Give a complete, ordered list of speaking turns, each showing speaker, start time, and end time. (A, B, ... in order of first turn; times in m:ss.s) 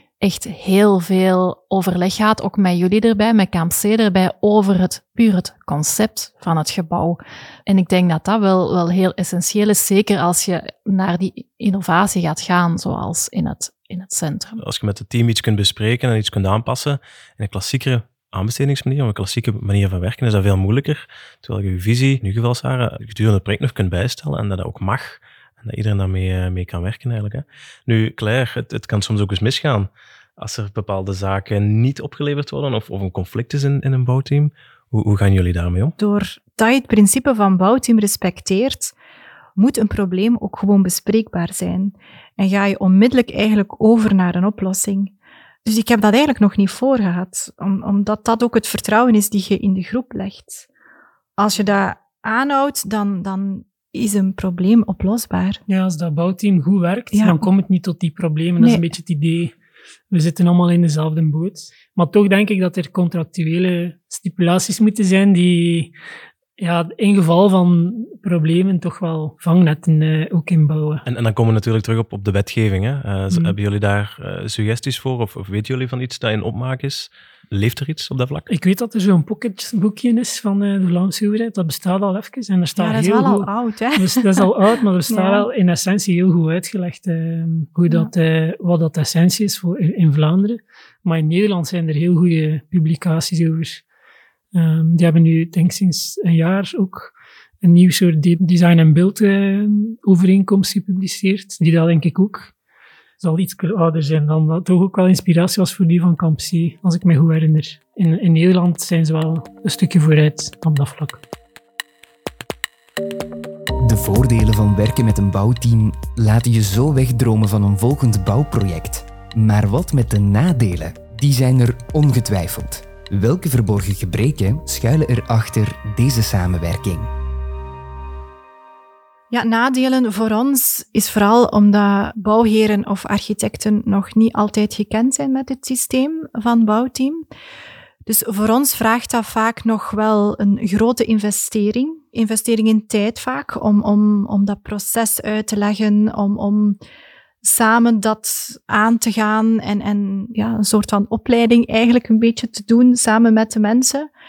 0:00.2-0:14.6 A
0:14.6-0:36.0 B
0:36.0-0:38.9 C
0:39.6-0:45.1 C
0:45.6-0:50.6 C
0:51.4-0:55.6 C
0:55.7-0:59.5 D
0:57.2-0:57.4 C
0:58.6-0:58.9 C
1:00.1-1:05.9 D
1:06.6-1:11.0 D
1:11.1-1:18.5 B
1:18.5-1:33.8 D
1:22.8-1:24.5 C
1:25.1-1:25.5 C
1:34.5-1:42.5 D
1:43.2-1:51.2 D
1:53.8-2:07.1 E
2:09.3-2:17.2 C
2:18.1-2:26.8 C
2:27.4-2:34.1 C